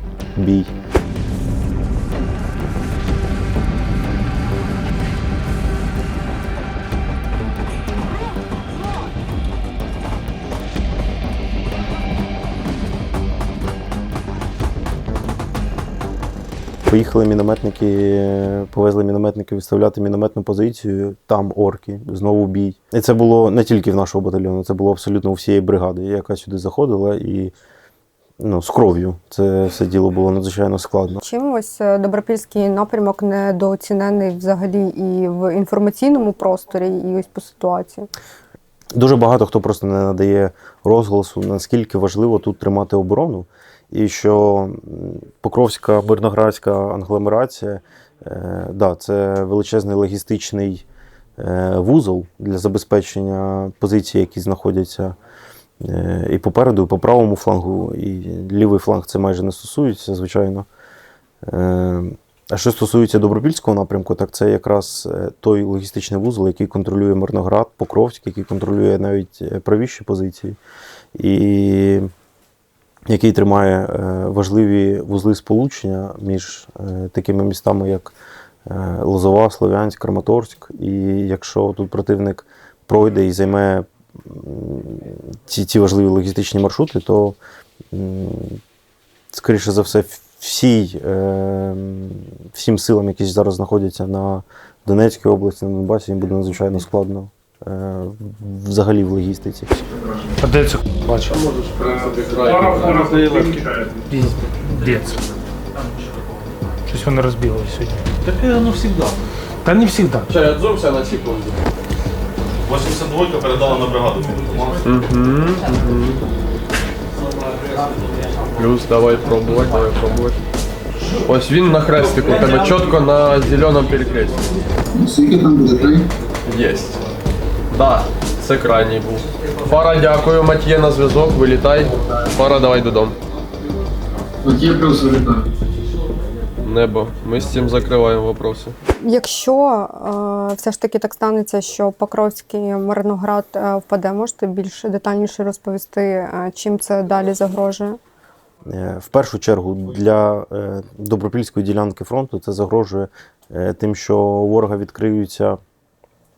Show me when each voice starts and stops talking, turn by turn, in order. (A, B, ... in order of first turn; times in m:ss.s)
0:00.4-0:00.7 A
0:16.9-0:27.5 A
0:28.4-0:31.2 A
0:31.2-0:38.1 B
0:38.9-0:50.8 A
0:51.4-0:55.2 A
0:55.8-1:00.7 A
1:01.4-1:10.6 A
1:11.2-1:12.1 A
1:13.1-1:18.1 A
1:18.7-1:27.4 A
1:27.9-1:28.6 A
1:29.3-1:39.7 A
1:39.9-1:40.4 C
1:40.4-1:41.4 D
1:41.3-1:43.6 E
1:42.4-1:43.5 D
1:43.6-1:44.0 C
1:44.1-1:45.2 D
1:46.9-1:48.1 D
1:49.6-1:50.3 D
1:50.3-1:51.6 E
1:52.6-1:54.8 F
1:54.8-1:56.2 E
1:58.6-2:00.4 E
2:01.2-2:04.5 E
2:04.9-2:06.1 C
2:06.5-2:07.0 E
2:07.7-2:13.2 E
2:14.4-2:15.5 C
2:16.6-2:18.8 E
2:19.0-2:28.0 B
2:28.7-2:35.6 A